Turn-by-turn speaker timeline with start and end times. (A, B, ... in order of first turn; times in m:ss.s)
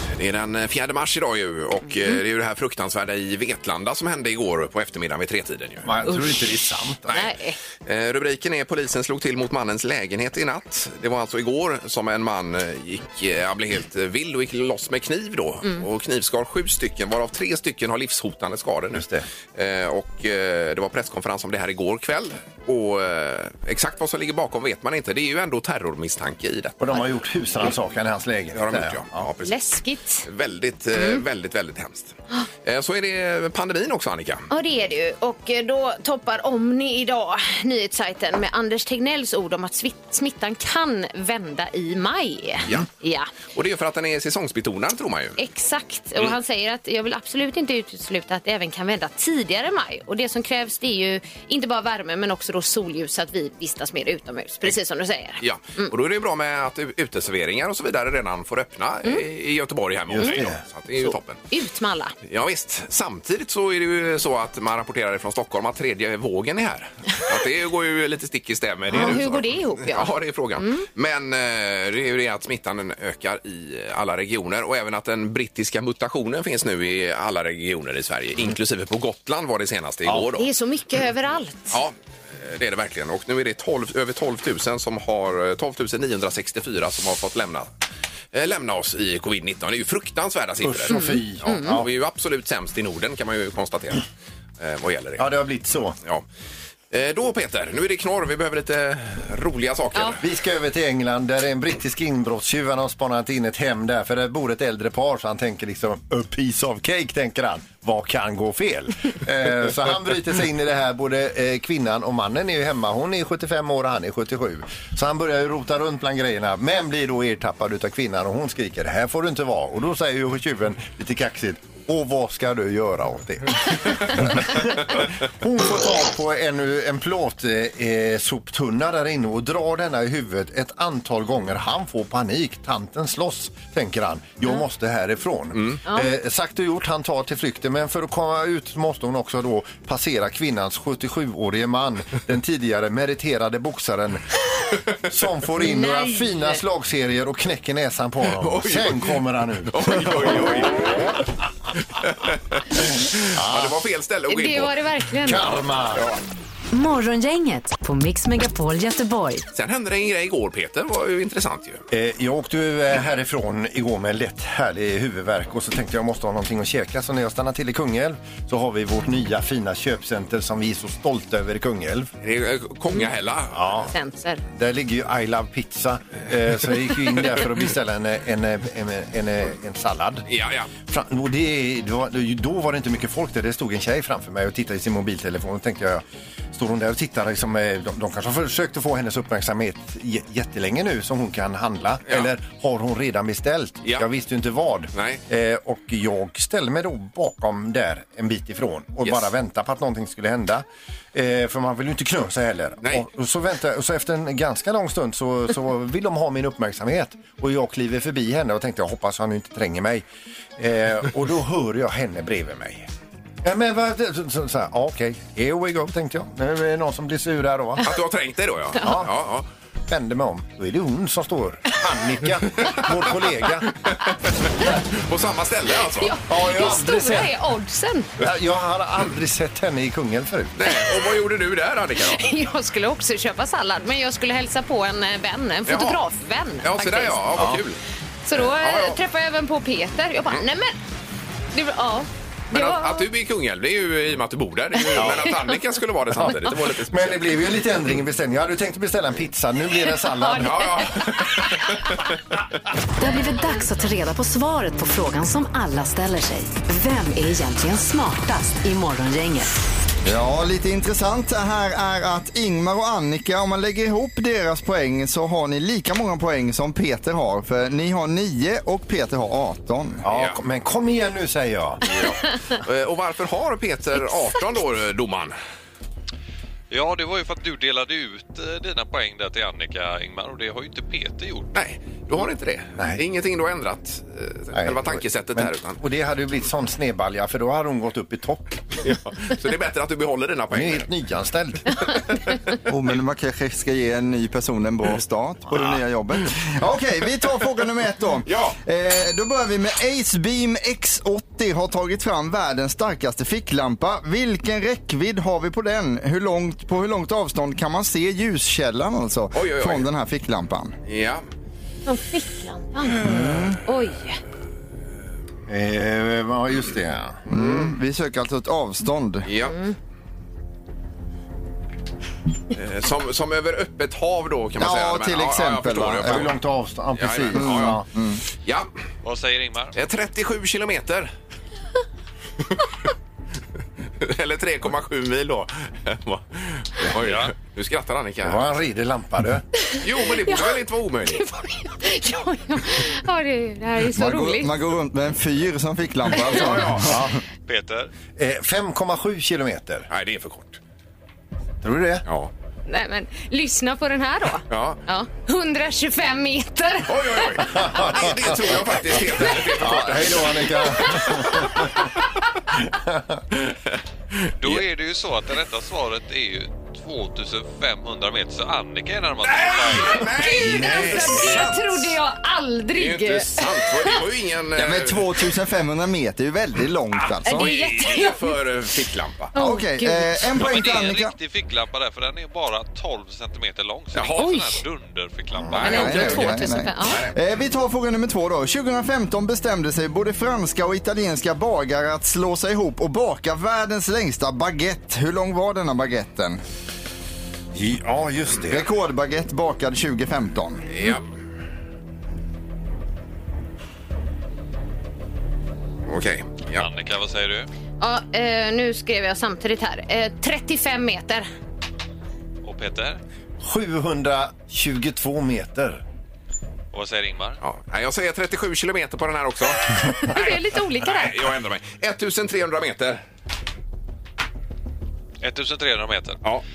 0:00.2-0:05.9 A
0:05.8-0:07.2 B
0:07.1-0:07.6 C
0:07.8-0:27.0 A
0:18.9-0:19.3 B
0:26.8-0:29.2 B
0:28.5-0:32.1 A
0:29.4-0:30.3 C
0:30.9-0:31.2 C
0:32.6-0:34.5 A
0:34.5-0:43.3 C
0:43.5-0:45.4 A
0:45.4-0:55.9 C
0:55.4-1:01.4 A
1:00.1-1:00.6 B
1:01.1-1:02.1 C
1:02.2-1:20.5 A
1:08.9-1:10.8 C
1:20.2-1:21.8 C
1:21.7-1:27.7 A
1:28.3-1:34.0 A
1:30.6-1:31.9 B
1:30.9-1:31.8 C
1:34.6-1:35.3 A
1:35.2-1:36.0 B
1:36.9-1:40.2 A
1:40.2-2:24.4 B
2:15.6-2:15.8 A
2:25.0-2:30.9 B
2:25.6-2:26.6 C
2:28.3-2:29.2 A
2:29.7-2:31.1 A
2:31.9-2:34.8 A
2:33.3-2:33.8 B
2:34.3-2:35.5 C
2:35.2-2:36.1 B
2:35.3-2:36.2 A
2:36.7-2:39.4 D
2:39.5-2:41.8 A
2:41.9-2:52.1 B
2:52.2-2:53.7 A
2:53.5-2:53.9 B
2:53.9-2:54.4 C
2:54.5-3:00.3 B
3:00.3-3:00.7 A
3:00.9-3:30.0 B
3:14.9-3:15.2 A
3:30.6-3:32.9 B
3:33.4-3:37.9 B
3:37.8-3:39.5 A
3:38.8-3:39.1 B
3:39.9-3:43.7 B
3:44.6-3:46.2 A
3:45.8-3:48.1 C
3:46.3-3:47.3 B
3:48.2-3:50.6 B
3:50.6-3:52.3 A
3:52.0-3:57.2 C
3:55.7-3:56.0 A
3:56.6-3:57.8 A
3:57.4-3:57.6 B
3:58.2-4:00.8 C
3:58.4-3:59.0 A
4:01.5-4:03.1 C
4:02.5-4:07.3 A
4:04.8-4:05.6 C
4:05.0-4:05.3 B
4:06.9-4:10.7 B
4:10.0-4:11.9 C
4:10.4-4:12.1 A
4:13.0-4:19.5 D
4:20.0-4:30.0 E
4:30.0-4:31.8 B
4:30.1-4:30.4 A
4:31.9-4:35.4 A
4:36.7-4:41.5 F
4:41.5-4:45.8 A
4:42.8-4:43.0 B
4:44.5-4:48.8 B
4:48.8-4:50.9 A
4:50.5-4:51.8 B
4:52.7-5:10.8 E
4:58.3-4:58.6 A
5:09.3-5:09.9 A
5:10.9-5:11.2 A
5:11.9-5:14.2 C
5:13.0-5:13.6 E
5:15.5-5:17.2 B
5:17.3-5:19.3 E
5:17.3-5:17.7 A
5:19.2-5:19.6 A
5:19.4-5:19.8 C
5:22.5-5:26.4 A
5:24.6-5:26.2 E
5:26.0-5:27.8 B
5:27.0-5:27.8 A
5:27.4-5:28.2 E
5:28.4-5:28.7 A
5:29.0-5:29.8 F
5:29.8-5:31.1 A
5:34.0-5:38.4 A
5:37.0-5:37.3 F
5:38.2-5:39.4 B
5:39.8-5:41.2 A
5:40.0-5:44.5 C
5:44.0-5:47.1 E
5:46.3-5:47.0 A
5:46.8-5:47.1 B
5:47.5-5:47.9 F
5:48.2-5:49.9 B
5:49.9-5:50.6 A
5:51.6-5:52.0 B
5:52.1-5:52.3 A
5:52.7-5:57.8 C
5:54.5-5:54.8 A
5:56.9-6:01.5 A
5:57.4-6:01.8 B
6:02.6-6:03.2 B
6:04.4-6:10.2 F
6:09.2-6:12.0 A
6:10.2-6:14.0 C
6:10.4-6:11.3 B
6:12.8-6:15.1 A
6:14.6-6:17.5 E
6:17.2-6:18.4 C
6:17.3-6:19.3 A
6:19.4-6:20.1 C
6:19.4-6:21.2 E
6:20.3-6:26.4 F
6:23.9-6:24.2 A
6:24.2-6:24.6 C
6:25.4-6:25.7 B
6:25.6-6:27.1 C
6:25.6-6:36.4 E
6:25.7-6:26.1 A
6:26.8-6:27.1 A
6:37.5-6:38.6 B
6:38.5-6:40.6 E
6:40.7-6:41.0 A
6:45.9-6:46.6 A
6:46.6-6:47.5 F
6:47.8-6:51.3 C
6:52.4-6:53.0 F
6:53.4-6:55.8 B
6:56.7-6:57.4 F
6:57.4-7:03.0 A
7:00.1-7:01.3 C
7:05.2-7:06.2 F